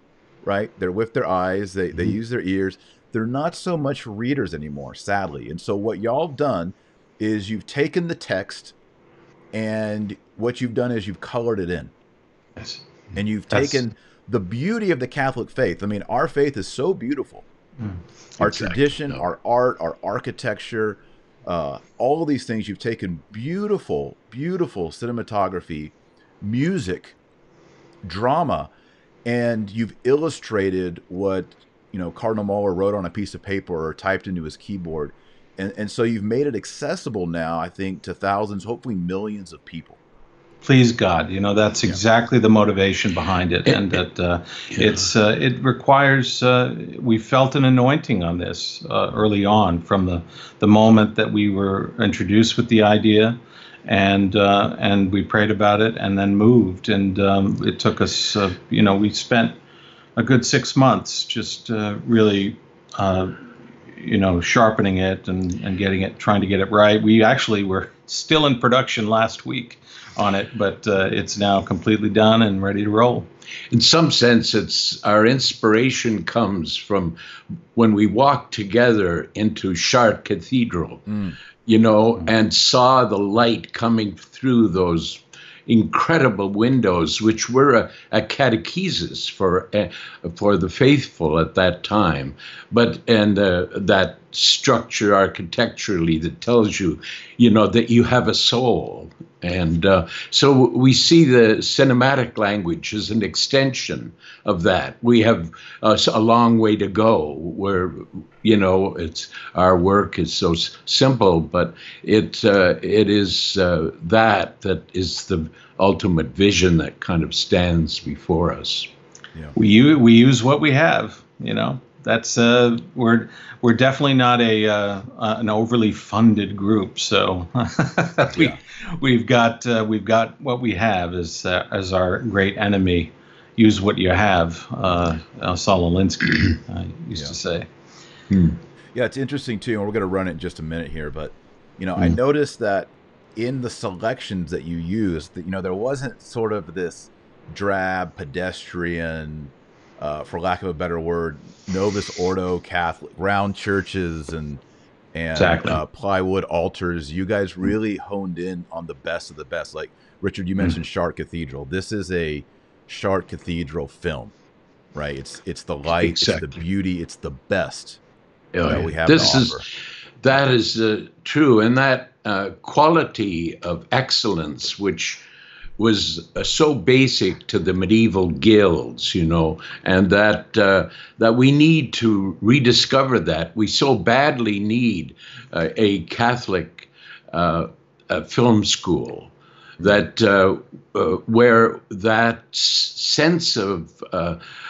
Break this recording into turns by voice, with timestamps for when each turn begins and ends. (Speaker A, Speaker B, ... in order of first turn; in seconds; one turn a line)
Speaker A: 0.4-8.7
Speaker A: 9.5-11.9
Speaker A: 13.1-17.5
Speaker B: 13.5-13.8
Speaker A: 18.4-27.2
Speaker C: 18.4-19.2
Speaker A: 28.0-28.7
Speaker A: 29.2-40.0
Speaker B: 40.6-59.6
Speaker C: 44.7-45.0
Speaker B: 60.1-63.3
Speaker B: 63.9-73.3
Speaker C: 73.7-77.2
Speaker C: 77.7-81.0
Speaker A: 81.1-81.3
Speaker C: 81.7-118.9
Speaker B: 119.5-137.7
Speaker A: 128.3-128.6
Speaker C: 138.3-138.6
Speaker A: 138.9-154.6
Speaker A: 155.1-164.3
Speaker B: 155.3-155.8
Speaker A: 164.9-168.0
Speaker C: 166.0-166.5
Speaker C: 168.5-169.6
Speaker A: 168.6-169.6
Speaker C: 170.2-175.2
Speaker C: 175.8-194.4